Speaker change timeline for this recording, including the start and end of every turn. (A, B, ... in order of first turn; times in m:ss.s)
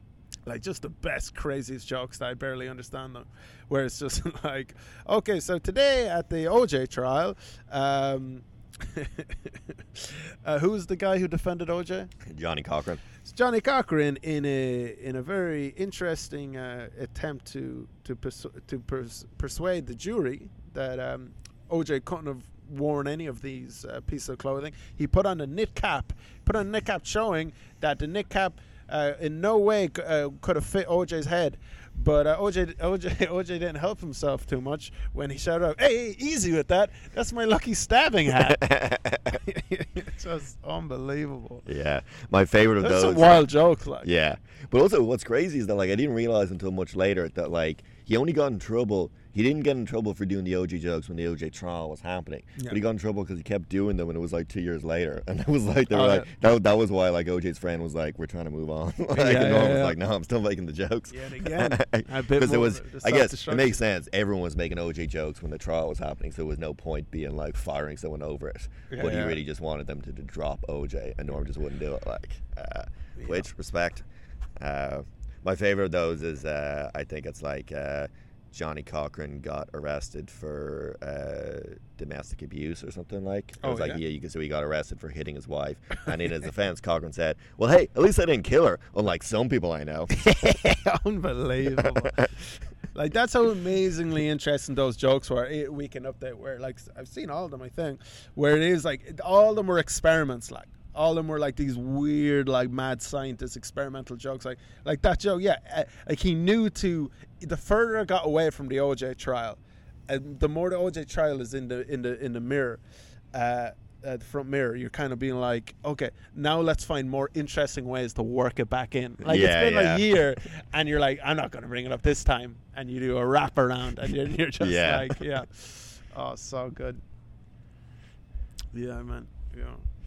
0:00.4-0:12.1 A
0:12.2-0:13.0 B
0:13.2-0:38.6 A
0:38.5-0:39.4 B
0:39.3-0:41.6 A
0:41.6-0:43.4 B
0:42.8-0:44.1 A
0:44.0-1:14.0 B
0:55.9-0:56.3 A
0:59.1-1:00.0 A
1:01.1-1:03.8 A
1:08.9-1:09.4 A
1:13.2-1:13.5 A
1:14.6-1:30.7 B
1:23.6-1:24.0 A
1:30.1-1:32.3 A
1:31.7-1:32.3 B
1:32.9-1:52.8 A
1:53.3-2:07.0 A
1:59.2-2:00.0 B
2:04.6-2:05.2 B
2:08.7-2:09.8 A